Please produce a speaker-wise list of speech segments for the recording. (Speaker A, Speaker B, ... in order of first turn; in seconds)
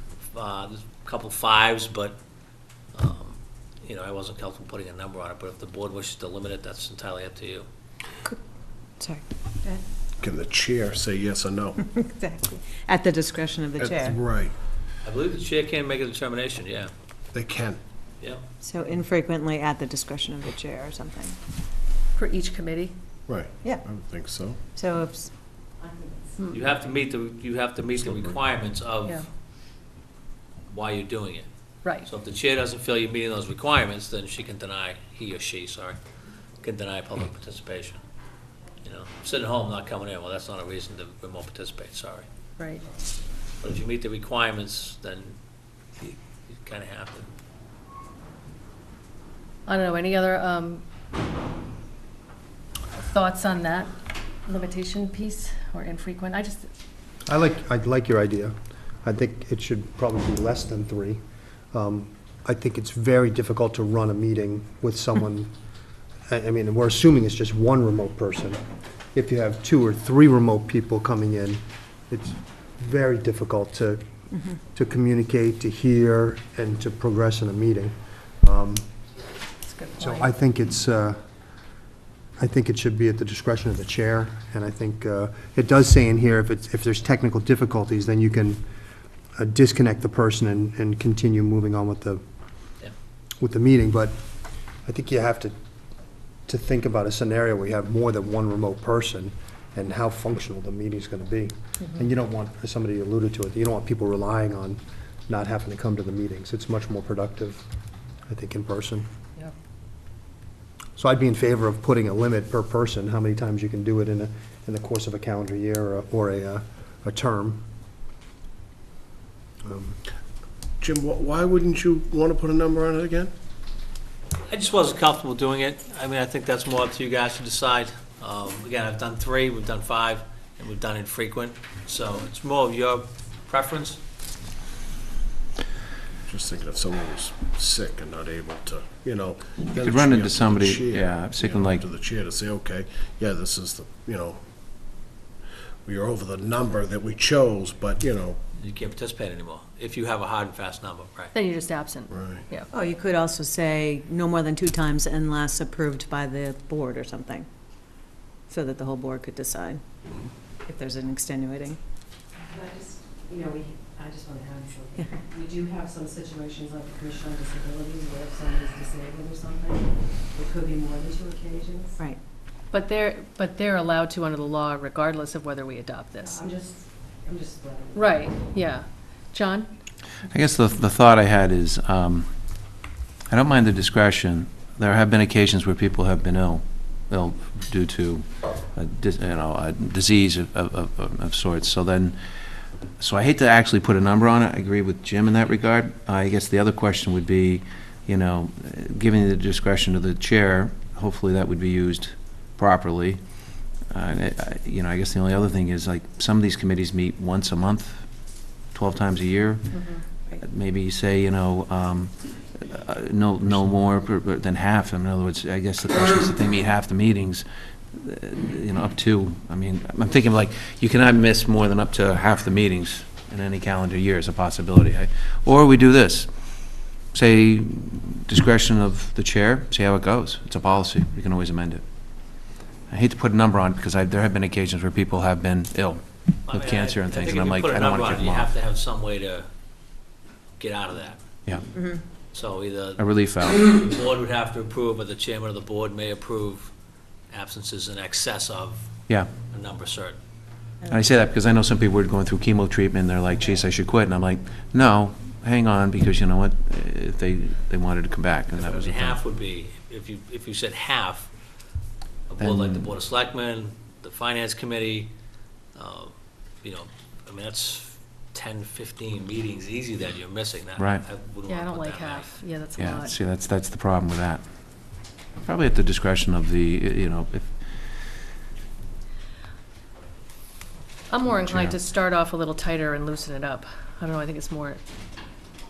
Speaker A: 0.3-2.2, 2.9-7.7, 15.1-16.9, 26.5-29.2, 30.7-31.5, 32.0-36.0, 36.6-38.0, 38.8-42.3, 43.6-45.4, 46.0-47.3, 124.5-134.0, 148.6-151.3, 236.5-239.5, 240.6-241.2, 242.3-246.7, 247.3-248.9, 249.5-250.2, 258.6-261.3, 262.3-265.1, 265.8-272.4
Speaker B: 9.0-9.8, 11.8-14.2, 18.6-21.4, 24.8-25.3, 152.7-157.5, 158.5-159.8, 160.7-161.8, 164.9-165.2, 241.7-242.0
Speaker C: 10.2-11.8, 13.8-14.5, 17.3-17.8, 23.3-24.6, 120.8-123.3, 136.3-144.4, 145.8-148.4, 152.1-152.5
Speaker D: 22.2-22.9, 42.6-42.8, 49.7-50.8, 53.0-53.9, 54.5-56.7, 79.7-80.3, 151.3-152.7, 172.7-176.4, 177.9-179.7, 209.7-210.0, 271.5-273.1, 281.1-284.8
Speaker E: 25.8-26.4, 162.5-172.0, 176.2-178.1
Speaker F: 57.3-61.2, 61.7-65.5, 66.3-68.6, 69.1-78.8, 80.0-81.2, 82.4-88.6, 89.4-92.2, 93.4-94.2, 94.9-95.5, 96.5-107.7, 108.3-109.1, 111.0-117.6, 119.7-120.0
Speaker G: 139.7-141.9, 180.3-182.3, 183.3-192.2, 193.0-203.2, 203.9-226.3, 227.1-231.8, 232.9-238.5, 243.0-243.7, 250.9-259.2, 262.4-262.9, 270.8-271.0, 272.8-274.4, 275.4-277.5, 281.3-281.8